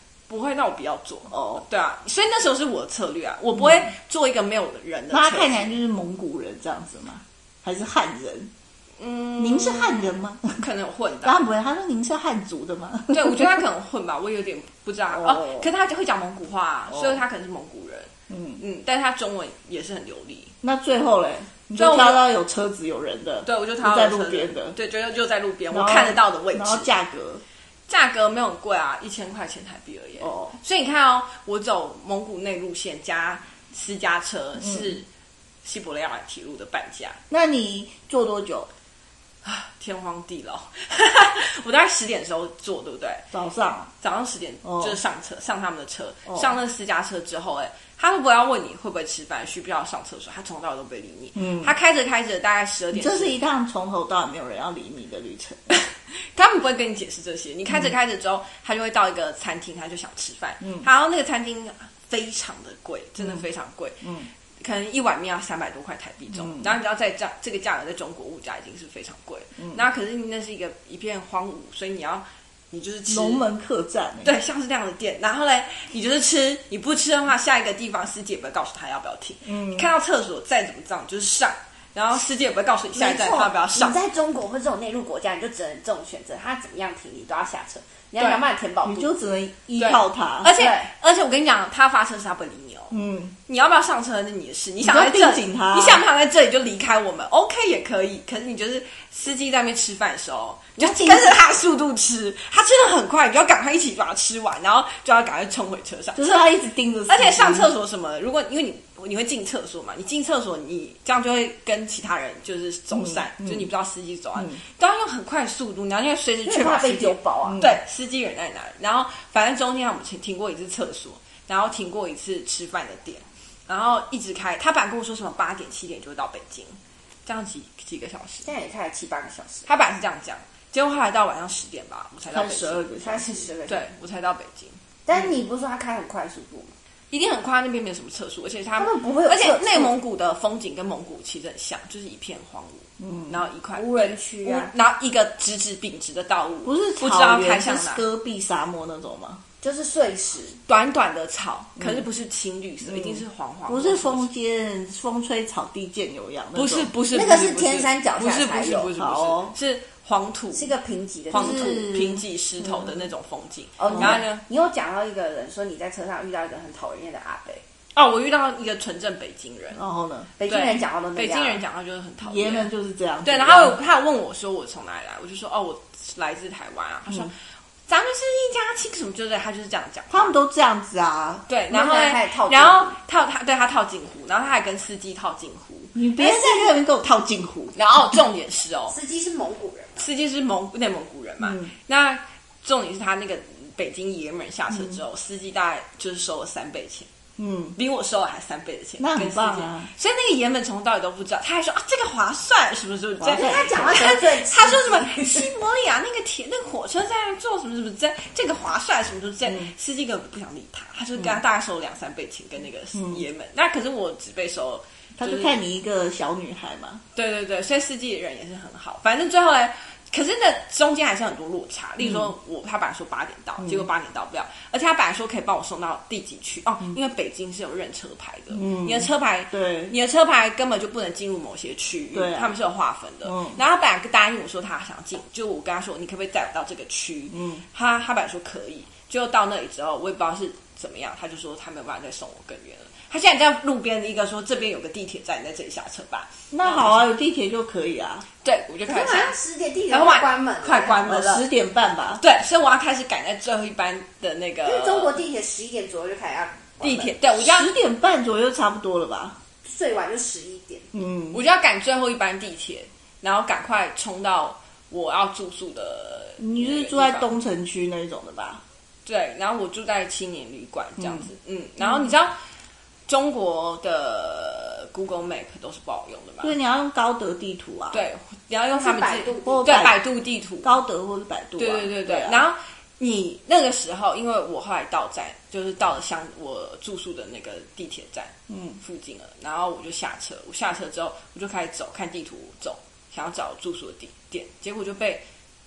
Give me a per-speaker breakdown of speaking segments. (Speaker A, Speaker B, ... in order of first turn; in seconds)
Speaker A: 0.3-5.8, 9.0-11.4, 13.1-20.5, 21.8-22.2, 23.4-26.9, 27.9-35.0, 35.6-37.2, 39.4-43.2, 44.0-53.4, 55.7-73.5, 74.2-84.0, 89.8-93.0, 93.5-106.4, 107.1-128.5, 129.7-132.9, 133.7-134.8, 137.1-148.0, 150.7-154.3, 156.5-160.7, 161.3-164.4, 167.9-169.8, 170.5-172.7, 173.2-177.3, 177.9-180.3, 181.5-185.9, 187.7-189.0, 190.0-197.1, 197.8-215.6, 217.1-247.0, 248.4-249.3, 249.9-251.4, 252.2-255.1, 256.8-257.7, 261.3-267.3, 269.1-272.4, 273.1-276.5, 277.9-280.7, 281.6-295.2
Speaker B: 1.3-1.6, 3.6-3.9, 5.1-8.5, 9.4-10.6, 11.2-13.6, 15.1-15.7, 16.9-17.2, 18.3-18.6, 20.6-24.8, 25.7-27.4, 30.2-30.6, 34.6-34.9, 37.3-38.7, 43.3-43.9, 44.6-45.0, 46.3-46.5, 51.4-51.7, 52.9-55.8, 60.6-60.9, 63.2-63.4, 64.0-64.3, 66.3-66.8, 73.1-74.3, 79.5-79.9, 88.8-90.5, 92.9-93.3, 94.8-96.0, 100.8-101.4, 106.1-107.7, 112.9-113.7, 114.3-114.6, 117.4-117.8, 132.3-133.5, 143.0-143.4, 146.6-149.4, 151.8-152.1, 152.8-156.9, 159.0-159.5, 161.3-163.0, 163.9-164.2, 169.7-170.3, 172.2-173.8, 180.1-181.4, 185.9-187.7, 191.4-191.7, 194.7-195.0, 197.4-197.8, 199.0-199.9, 203.2-204.0, 209.4-209.7, 212.9-213.2, 215.2-217.0, 222.0-222.3, 223.6-223.9, 228.5-229.9, 232.1-232.5, 233.2-233.6, 237.3-237.6, 246.5-248.2, 251.0-252.2, 257.3-259.4, 260.9-261.4, 266.4-268.6, 271.0-271.3, 276.4-278.0, 279.4-280.0, 280.6-282.4, 288.5-288.8
Speaker C: 82.9-89.2, 90.5-90.9, 116.5-117.6, 128.4-129.7, 133.0-133.8, 135.1-136.7, 138.8-139.9, 143.7-144.7, 149.6-150.6, 157.1-158.9, 160.5-161.9, 163.8-167.6, 170.4-171.6, 181.7-182.9, 186.2-186.7, 188.9-190.1, 203.3-205.5, 248.9-251.1, 254.6-257.1, 259.6-260.9, 278.7-279.9